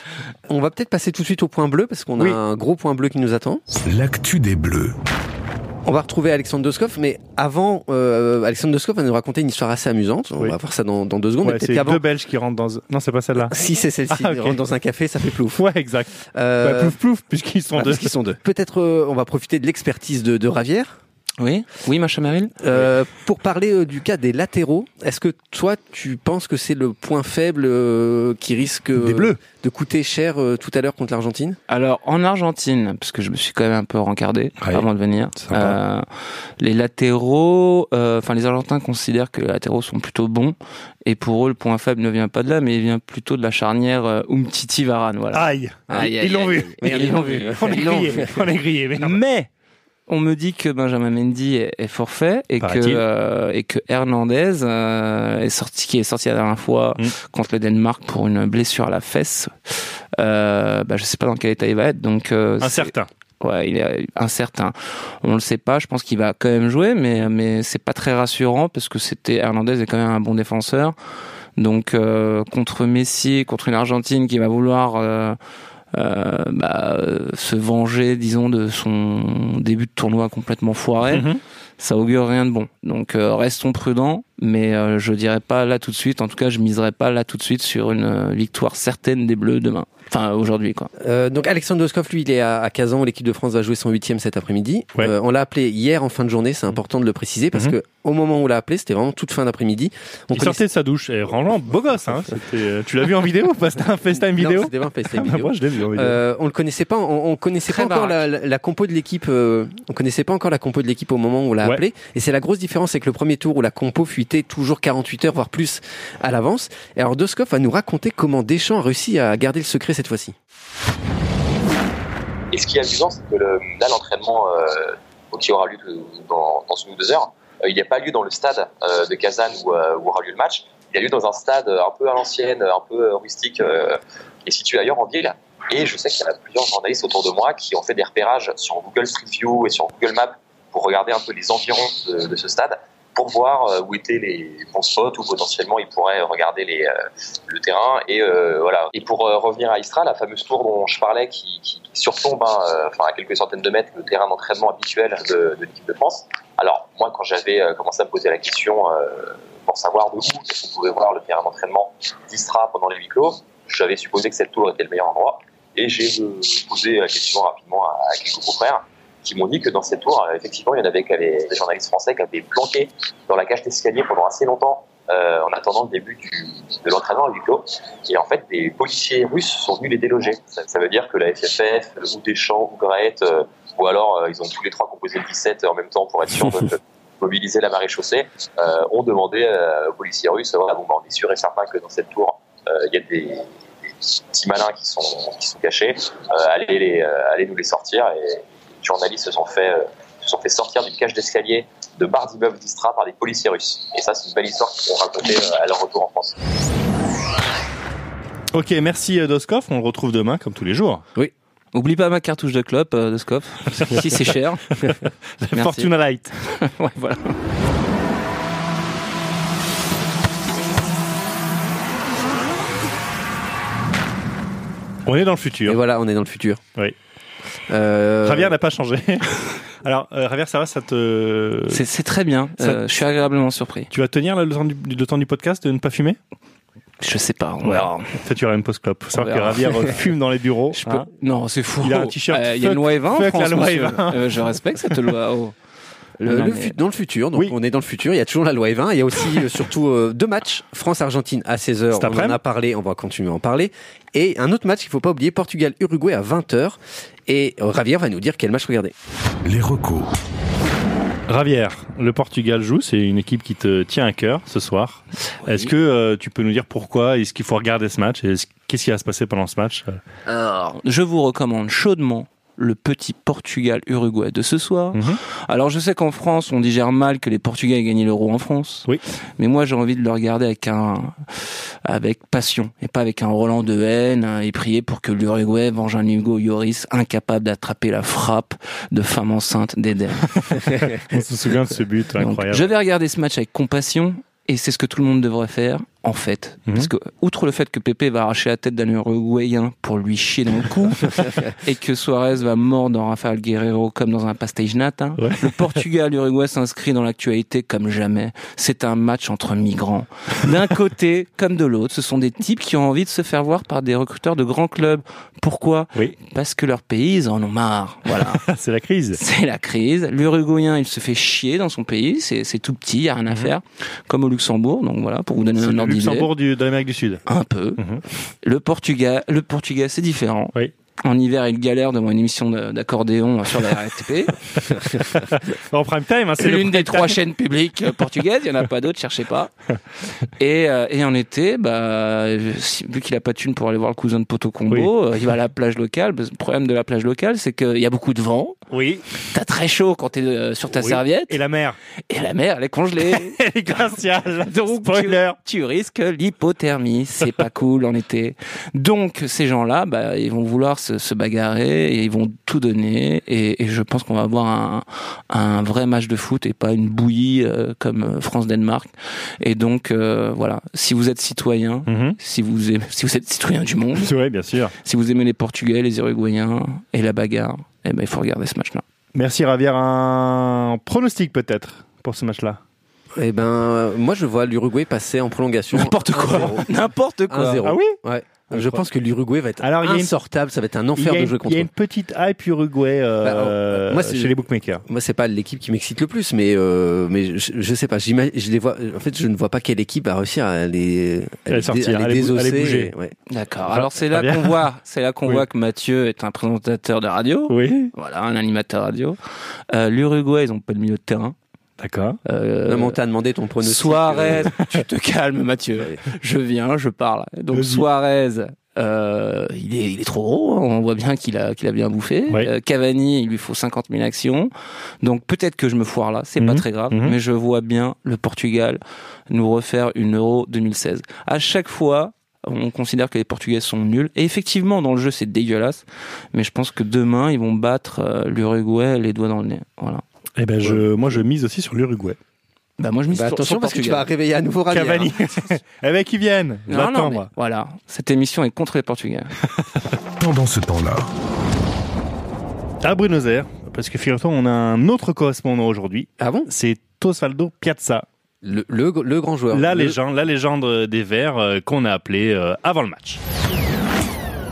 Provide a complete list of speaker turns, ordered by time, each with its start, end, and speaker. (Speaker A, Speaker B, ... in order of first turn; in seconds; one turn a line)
Speaker A: 0.5-3.6
Speaker B: 3.9-5.0
Speaker A: 5.8-12.0
Speaker C: 11.4-13.5
Speaker A: 13.4-15.7
Speaker C: 14.1-14.6
Speaker C: 15.6-18.1
Speaker A: 16.3-17.0
Speaker A: 17.8-21.0
Speaker D: 21.4-22.6
Speaker A: 22.6-31.6
Speaker C: 29.0-29.4
Speaker D: 31.7-36.1
Speaker C: 35.4-35.8
Speaker D: 36.6-48.3
Speaker C: 45.3-49.5
Speaker A: 45.9-46.2
Speaker A: 46.8-48.4
Speaker D: 50.1-71.0
Speaker C: 52.6-53.0
Speaker C: 62.6-63.1
Speaker D: 71.6-75.4
Speaker D: 75.9-81.3
Speaker C: 81.1-81.4
Speaker D: 81.8-90.9
Speaker A: 91.0-100.6
Speaker C: 100.3-106.2
Speaker A: 104.3-120.3
Speaker D: 107.7-108.2
Speaker E: 122.5-206.4
Speaker C: 208.5-211.0
Speaker D: 211.7-214.7
Speaker C: 214.9-216.3
Speaker D: 215.5-215.9
Speaker D: 216.5-217.4
Speaker C: 225.1-225.8
Speaker A: 225.7-226.6
Speaker A: 227.7-228.6
Speaker C: 228.2-231.8
Speaker D: 231.7-233.9
Speaker C: 233.9-236.2
Speaker D: 237.0-238.2
Speaker C: 237.6-241.1
Speaker D: 239.1-240.0
Speaker D: 240.8-245.5
Speaker C: 241.8-244.4
Speaker D: 246.2-246.8
Speaker A: 246.2-258.9
Speaker C: 251.9-252.4
Speaker B: 259.4-260.1
Speaker C: 261.3-270.0
Speaker D: 265.5-265.7
Speaker D: 270.3-290.9
Speaker C: 274.9-275.2
Speaker C: 290.4-292.7
Speaker D: 292.2-318.4
Speaker C: 305.2-305.8
Speaker C: 318.2-319.2
Speaker D: 319.1-326.3
Speaker C: 325.6-327.2
Speaker D: 327.3-327.8
Speaker D: 328.4-334.4
Speaker C: 335.0-337.2
Speaker D: 336.4-339.5
Speaker D: 340.4-348.6
Speaker C: 348.7-349.0
Speaker D: 349.3-351.4
Speaker C: 350.7-351.8
Speaker D: 352.1-353.4
Speaker C: 353.1-355.4
Speaker D: 354.4-374.1
Speaker C: 371.9-372.2
Speaker C: 374.0-374.7
Speaker D: 374.8-378.8
Speaker C: 379.1-382.6
Speaker A: 383.2-386.7
Speaker D: 385.7-387.7
Speaker A: 387.3-391.7
Speaker C: 387.6-388.0
Speaker C: 388.5-388.8
Speaker C: 389.6-390.1
Speaker C: 391.0-394.8
Speaker A: 393.2-394.4
Speaker A: 394.9-403.1
Speaker C: 401.5-402.9
Speaker D: 403.3-409.2
Speaker C: 403.7-404.6
Speaker C: 407.5-407.9
Speaker D: 409.7-411.4
Speaker C: 411.8-412.2
Speaker D: 412.2-413.0
Speaker A: 412.7-414.6
Speaker D: 413.6-424.5
Speaker C: 417.5-417.9
Speaker D: 425.0-440.0
Speaker C: 426.4-427.2
Speaker C: 440.4-442.2
Speaker D: 442.8-444.1
Speaker A: 443.1-445.2
Speaker C: 444.7-447.3
Speaker D: 446.7-449.3
Speaker B: 450.2-451.1
Speaker C: 452.8-458.1
Speaker A: 456.2-456.5
Speaker A: 458.4-460.0
Speaker C: 459.5-463.2